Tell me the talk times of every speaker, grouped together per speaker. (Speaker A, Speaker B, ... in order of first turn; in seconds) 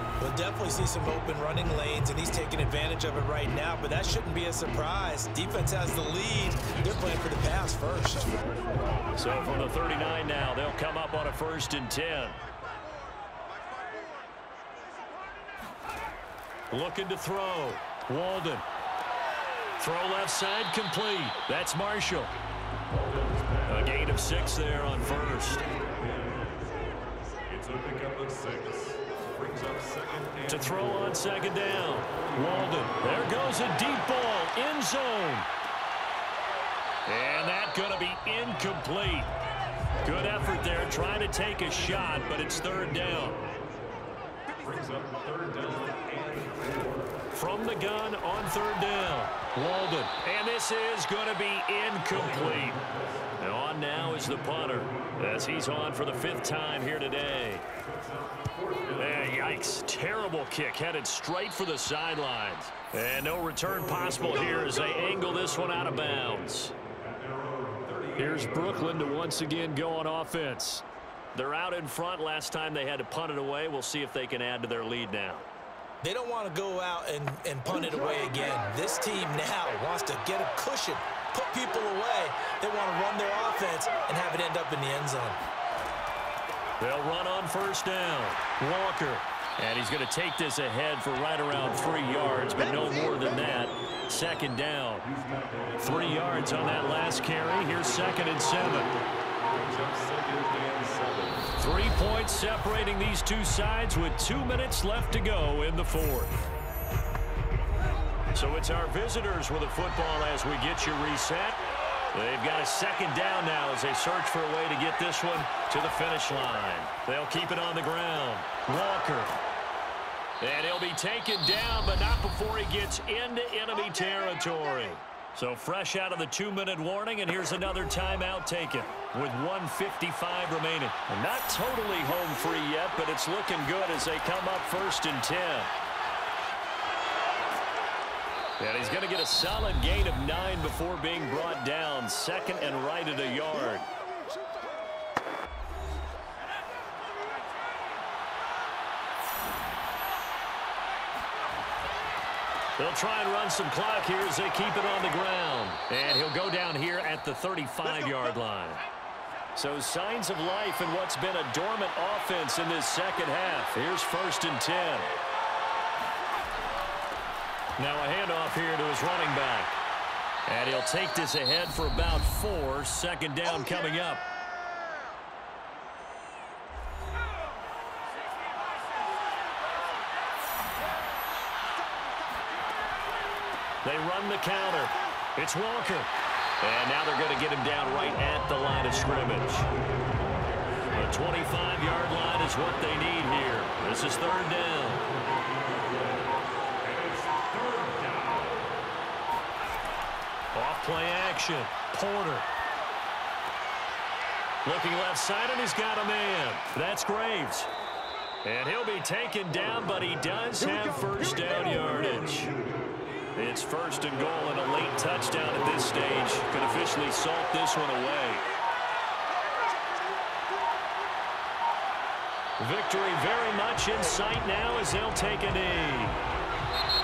Speaker A: 0.2-8.3, 76.0-85.4
Speaker B: 9.2-12.4, 16.7-18.6, 19.8-22.3, 23.7-25.6, 30.5-35.5, 37.0-39.3, 40.0-43.5, 47.3-52.8, 53.4-57.6, 59.0-66.7, 68.2-75.5, 86.8-95.1, 95.8-98.9, 101.6-106.4, 108.3-111.6, 112.1-119.4, 120.4-135.7, 138.6-143.9, 152.8-158.8, 159.6-165.1, 167.8-169.8, 170.5-174.2, 183.8-186.1, 186.6-189.7, 190.9-195.1, 200.5-202.5, 204.6-207.7, 208.4-212.5, 213.3-218.4, 222.6-226.2
Speaker C: 23.1-23.7, 25.8-26.5, 27.5-31.0, 44.6-47.2, 58.4-58.9, 67.1-69.1, 95.1-96.3, 99.4-101.5, 196.8-198.4